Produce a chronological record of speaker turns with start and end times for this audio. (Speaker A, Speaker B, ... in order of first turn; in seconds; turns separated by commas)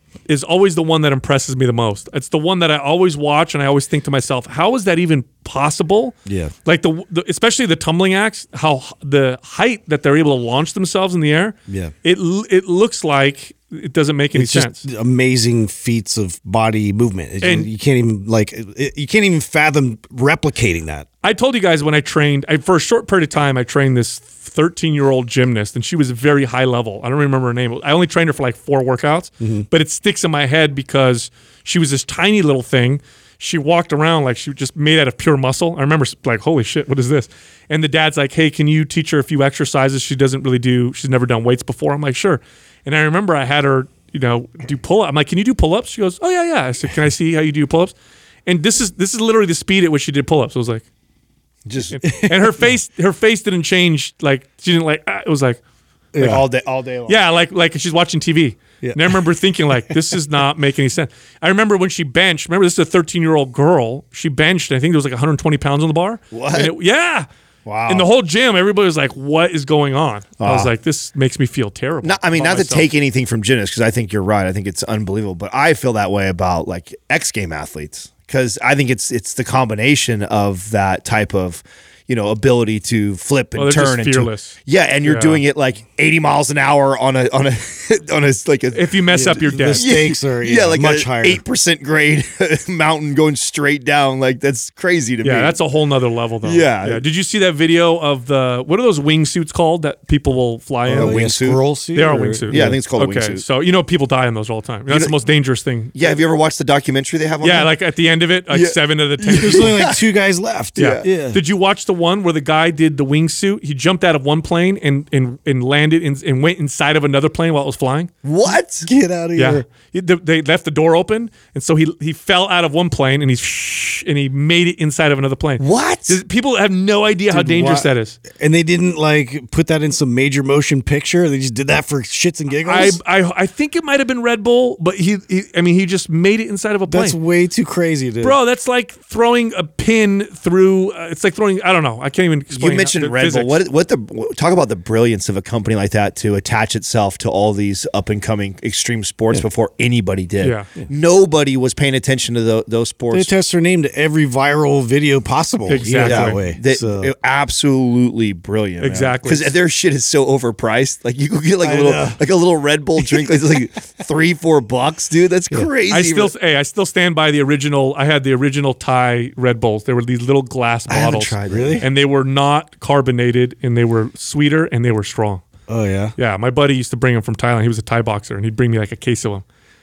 Speaker A: 0.3-14.8, Speaker B: 6.3-6.5, Speaker B: 11.7-11.9, Speaker B: 14.3-21.1, Speaker A: 17.4-17.7, Speaker A: 21.2-47.9, Speaker B: 29.4-29.7, Speaker A: 48.5-50.9, Speaker C: 51.7-52.0, Speaker A: 51.9-55.6, Speaker B: 52.1-52.7, Speaker B: 56.1-56.5, Speaker C: 56.2-57.2, Speaker A: 57.1-67.3, Speaker B: 58.8-59.2, Speaker C: 66.3-66.7, Speaker C: 67.7-68.1, Speaker A: 67.9-72.9, Speaker C: 70.4-70.7, Speaker C: 72.0-95.6, Speaker A: 83.6-85.4, Speaker A: 88.7-89.9, Speaker B: 89.1-91.4, Speaker A: 95.2-101.3, Speaker C: 96.4-97.0, Speaker C: 100.9-101.6, Speaker B: 100.9-102.8, Speaker A: 101.9-105.9, Speaker C: 102.5-103.4, Speaker C: 104.9-105.1, Speaker C: 105.9-107.7, Speaker A: 107.4-109.8, Speaker C: 108.5-110.0, Speaker B: 109.3-111.4, Speaker C: 110.8-111.1, Speaker A: 110.8-118.1, Speaker C: 118.2-118.9, Speaker B: 118.5-119.7, Speaker A: 119.4-128.2, Speaker C: 125.6-126.2, Speaker B: 127.3-133.0, Speaker A: 132.6-137.2, Speaker B: 136.9-138.4, Speaker A: 138.2-143.6, Speaker C: 142.5-153.3, Speaker A: 150.4-150.7, Speaker B: 153.1-157.1, Speaker A: 155.7-156.4, Speaker C: 156.0-166.3, Speaker A: 158.8-159.6, Speaker B: 161.6-162.2, Speaker B: 163.0-163.4, Speaker A: 165.9-175.4, Speaker C: 170.9-171.9, Speaker B: 171.5-171.9, Speaker B: 175.7-176.2, Speaker A: 176.2-179.4